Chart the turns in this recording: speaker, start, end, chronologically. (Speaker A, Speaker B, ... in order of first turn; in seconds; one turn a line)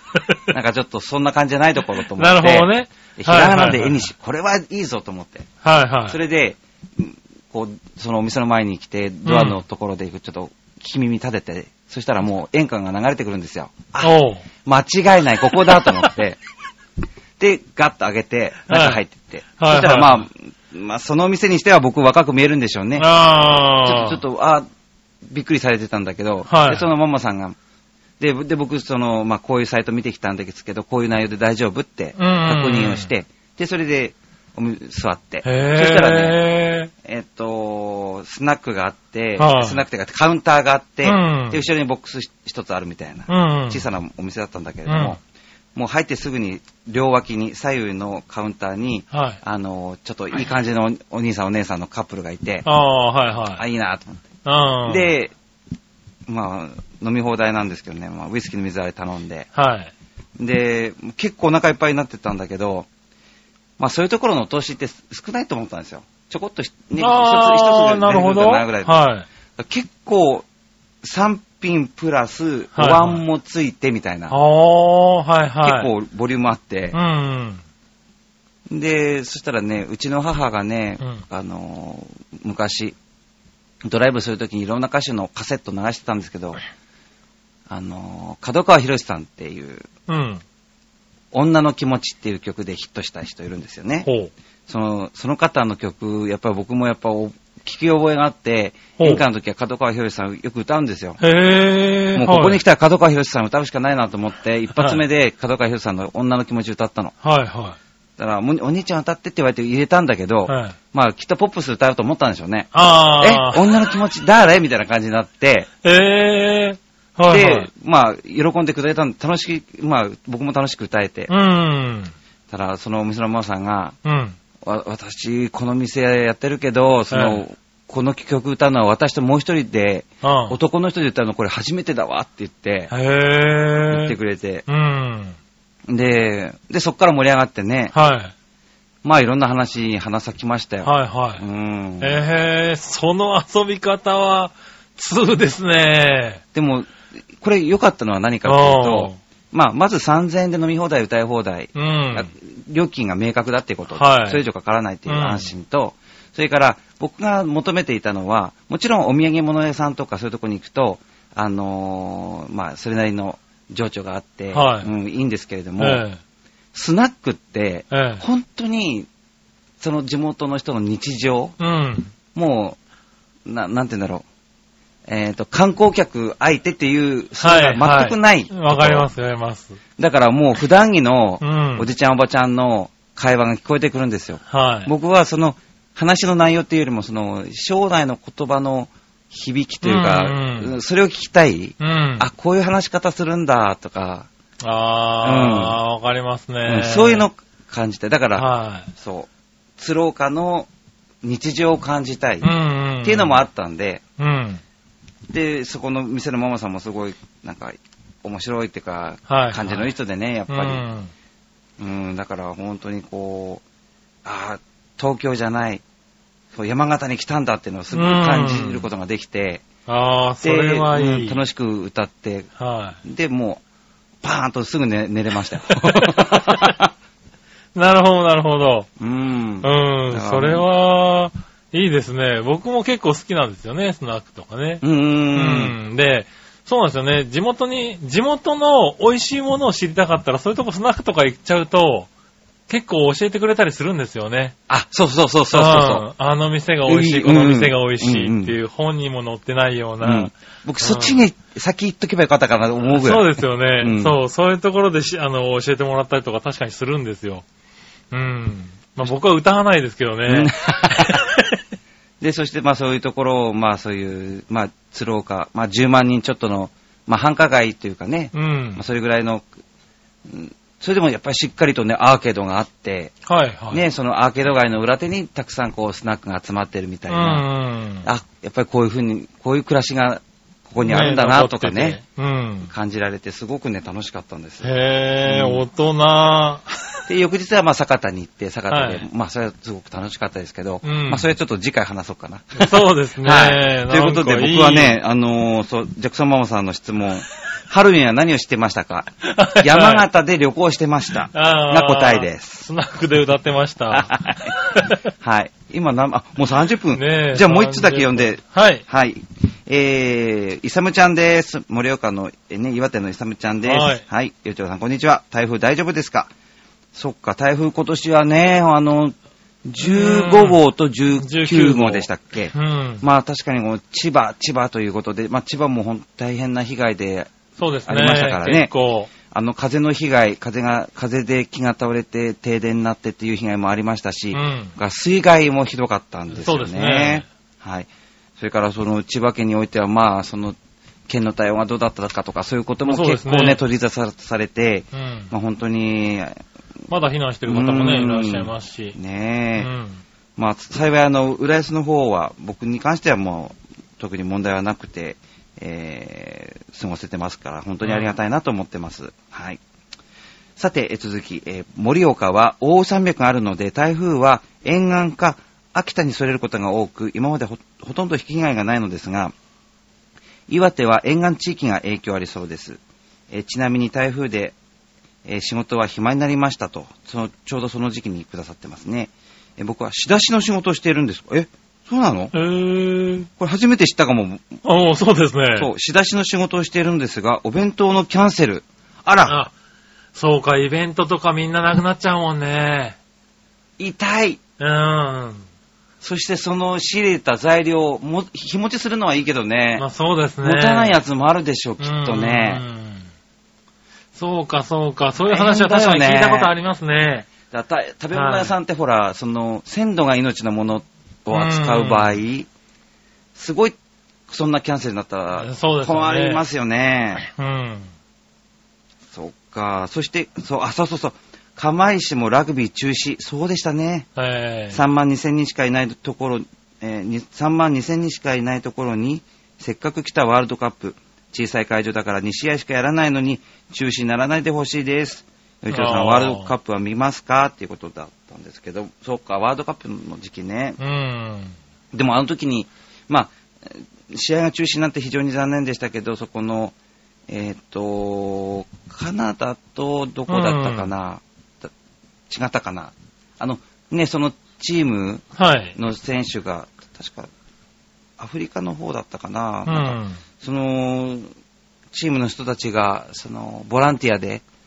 Speaker A: 0.5-5.5
Speaker B: 2.1-4.0
Speaker B: 5.6-6.2
Speaker A: 6.1-16.4
Speaker B: 9.3-9.6
Speaker B: 14.0-14.4
Speaker B: 15.7-16.1
Speaker A: 17.4-23.1
Speaker B: 18.7-19.0
Speaker B: 19.6-20.2
Speaker B: 23.0-24.2
Speaker A: 23.8-24.6
Speaker A: 25.3-27.6
Speaker B: 26.5-26.9
Speaker A: 28.2-36.4
Speaker B: 32.2-33.1
Speaker B: 35.4-36.9
Speaker A: 37.0-45.2
Speaker B: 39.4-39.8
Speaker B: 41.0-41.6
Speaker B: 43.3-43.8
Speaker B: 44.9-45.2
Speaker A: 45.8-52.7
Speaker B: 49.1-49.4
Speaker B: 52.6-53.6
Speaker A: 53.6-54.2
Speaker B: 54.5-55.1
Speaker A: 54.9-55.3
Speaker A: 56.3-59.5
Speaker B: 59.5-59.9
Speaker A: 60.4-62.9
Speaker A: 63.8-69.0
Speaker B: 67.0-69.3
Speaker A: 69.6-70.5
Speaker A: 71.0-74.4
Speaker B: 72.8-73.2
Speaker B: 74.3-75.9
Speaker A: 75.6-77.0
Speaker B: 76.9-77.6
Speaker A: 78.7-83.0
Speaker A: 83.8-86.6
Speaker A: 87.7-89.9
Speaker B: 90.1-90.4
Speaker A: 91.3-94.1
Speaker B: 94.0-94.3
Speaker A: 94.7-101.2
Speaker B: 99.0-99.2
Speaker B: 101.2-102.6
Speaker A: 102.2-107.1
Speaker B: 104.8-105.0
Speaker B: 107.2-107.8
Speaker A: 108.2-115.7
Speaker B: 110.5-110.8
Speaker B: 112.7-113.8
Speaker B: 115.8-117.7
Speaker A: 117.3-121.3
Speaker B: 121.3-122.1
Speaker A: 122.5-124.0
Speaker B: 124.0-124.4
Speaker A: 124.6-132.9
Speaker B: 127.1-127.4
Speaker B: 130.2-130.6
Speaker B: 132.9-134.2
Speaker A: 133.9-134.7
Speaker B: 134.7-135.4
Speaker A: 135.9-137.9
Speaker B: 137.9-138.3
Speaker A: 139.0-142.2
Speaker B: 140.8-141.4
Speaker B: 142.0-146.4
Speaker A: 146.5-166.0
Speaker B: 148.4-149.2
Speaker B: 151.8-152.3
Speaker B: 153.9-154.4
Speaker B: 155.1-155.5
Speaker B: 164.5-164.9
Speaker B: 165.8-166.2
Speaker A: 166.7-169.1
Speaker B: 167.9-168.2
Speaker A: 169.8-171.6
Speaker B: 171.6-172.1
Speaker A: 172.3-172.8
Speaker A: 173.5-174.3
Speaker A: 175.1-179.1
Speaker B: 177.4-179.8
Speaker A: 180.0-194.3
Speaker B: 181.4-181.9
Speaker B: 184.5-184.9
Speaker B: 189.8-190.7
Speaker B: 191.8-192.3
Speaker B: 194.6-197.3
Speaker A: 195.2-195.8
Speaker A: 196.7-200.7
Speaker B: 198.4-198.9
Speaker A: 201.2-202.5
Speaker B: 202.4-203.4
Speaker A: 203.0-204.0
Speaker B: 204.2-204.6
Speaker A: 205.3-210.8
Speaker B: 209.3-209.9
Speaker B: 210.5-211.1
Speaker A: 211.8-213.6
Speaker A: 214.2-215.8
Speaker A: 216.5-219.6
Speaker B: 217.9-218.9
Speaker B: 219.9-221.4
Speaker A: 220.4-222.5
Speaker B: 222.6-223.0
Speaker A: 223.0-223.6
Speaker A: 224.2-226.9
Speaker B: 225.7-226.8
Speaker B: 227.8-228.9
Speaker A: 229.0-230.7
Speaker B: 229.6-234.8
Speaker A: 234.8-235.8
Speaker B: 235.3-242.1
Speaker B: 242.7-244.6
Speaker A: 244.7-246.1
Speaker B: 245.5-251.2
Speaker A: 246.9-248.6
Speaker A: 250.0-254.2
Speaker B: 252.9-257.4
Speaker B: 258.1-261.6
Speaker A: 260.3-261.3
Speaker A: 262.2-269.5
Speaker B: 268.3-268.8
Speaker A: 270.3-273.1
Speaker B: 273.2-273.8
Speaker A: 273.7-277.5
Speaker B: 277.1-278.1
Speaker A: 278.0-282.0
Speaker B: 280.8-282.7
Speaker A: 282.7-284.7
Speaker B: 284.6-287.0
Speaker A: 285.2-285.6
Speaker A: 287.1-302.7
Speaker B: 288.7-289.1
Speaker B: 290.8-291.2
Speaker B: 292.6-295.0
Speaker B: 299.2-300.0
Speaker B: 301.3-305.1
Speaker A: 303.9-304.6
Speaker A: 305.2-316.3
Speaker B: 306.9-308.8
Speaker B: 313.6-314.0
Speaker A: 316.9-328.7
Speaker B: 319.8-320.6
Speaker B: 321.2-323.0
Speaker B: 327.6-329.1
Speaker A: 329.3-340.6
Speaker B: 334.3-334.7
Speaker B: 336.3-337.3
Speaker A: 341.1-346.4
Speaker B: 342.9-343.6
Speaker B: 344.9-345.3
Speaker B: 346.9-349.0
Speaker A: 347.5-349.7
Speaker B: 349.6-350.0
Speaker A: 350.4-359.6
Speaker B: 357.8-358.1
Speaker A: 360.6-369.3
Speaker A: 370.5-372.8
Speaker A: 373.3-374.6
Speaker A: 375.2-382.3
Speaker B: 382.3-383.3
Speaker A: 383.4-384.6
Speaker B: 384.6-385.7
Speaker A: 385.6-389.4
Speaker B: 389.3-389.5
Speaker B: 390.1-393.0
Speaker A: 393.8-394.4
Speaker B: 394.6-395.4
Speaker A: 396.0-399.9
Speaker B: 399.8-401.0
Speaker A: 400.4-402.6
Speaker B: 401.8-403.1
Speaker B: 404.1-407.3
Speaker A: 405.3-406.5
Speaker A: 407.5-412.5
Speaker B: 408.1-408.5
Speaker B: 411.3-412.2
Speaker A: 413.4-413.8
Speaker A: 414.3-417.3
Speaker B: 415.4-416.4
Speaker B: 417.2-417.9
Speaker A: 419.1-424.1
Speaker B: 424.2-424.8
Speaker A: 424.7-440.8
Speaker B: 435.7-436.5
Speaker B: 440.8-441.6
Speaker A: 441.9-446.8
Speaker A: 447.3-451.7
Speaker B: 450.3-450.9
Speaker A: 452.3-455.2
Speaker B: 455.4-455.8
Speaker A: 455.8-457.3
Speaker A: 458.2-461.3
Speaker B: 459.7-460.2
Speaker A: 461.9-464.4